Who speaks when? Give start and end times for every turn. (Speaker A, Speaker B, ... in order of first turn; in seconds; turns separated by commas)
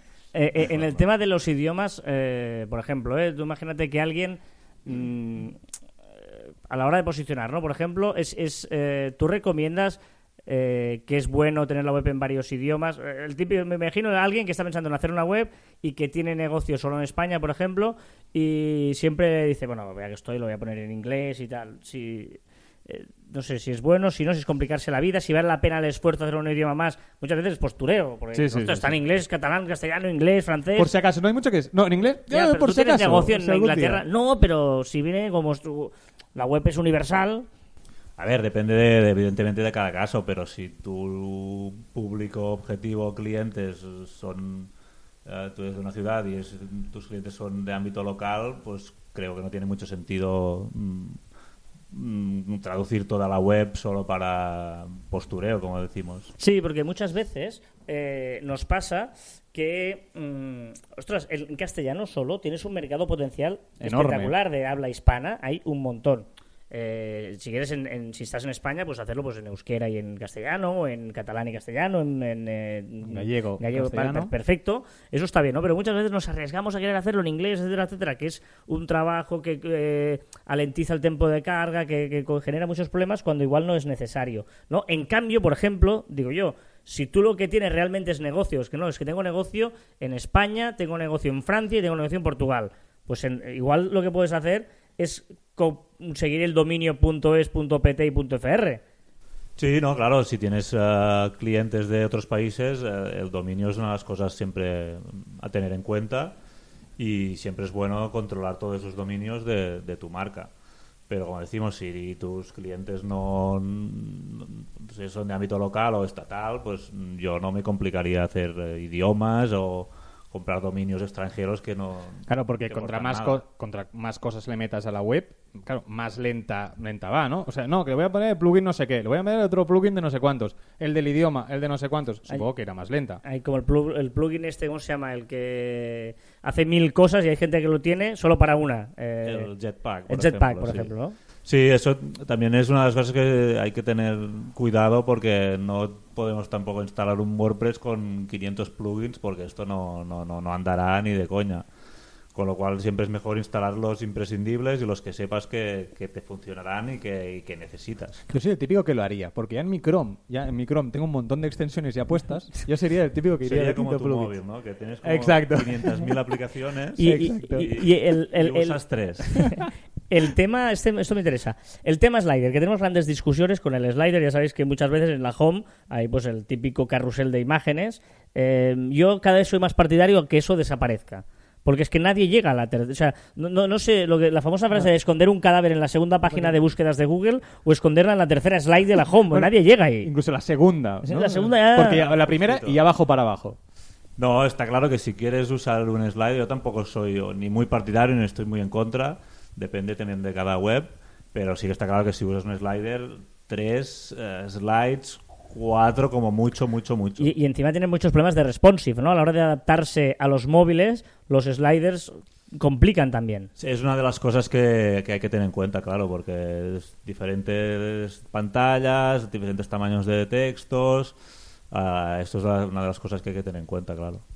Speaker A: 0.3-5.6, Speaker A: 6.3-30.9, Speaker B: 28.3-29.0, Speaker B: 30.8-34.0, Speaker A: 32.3-37.5, Speaker C: 38.2-44.7, Speaker C: 45.2-51.2, Speaker C: 51.9-56.3, Speaker A: 56.4-98.8, Speaker B: 63.8-64.4, Speaker B: 73.0-74.3, Speaker C: 99.6-106.4, Speaker C: 107.0-110.5, Speaker C: 111.1-123.4, Speaker B: 122.3-133.2, Speaker A: 133.2-139.5, Speaker C: 139.2-140.9, Speaker A: 140.1-141.2, Speaker C: 141.4-151.7, Speaker C: 152.3-158.3, Speaker B: 158.3-164.3, Speaker C: 163.4-169.5, Speaker B: 165.0-166.0, Speaker A: 167.0-190.1, Speaker B: 167.0-167.7, Speaker B: 186.3-186.6, Speaker B: 189.3-193.6, Speaker A: 191.0-192.1, Speaker C: 191.9-192.8, Speaker C: 194.2-207.3, Speaker A: 207.2-213.5, Speaker C: 213.6-221.2, Speaker C: 221.7-224.2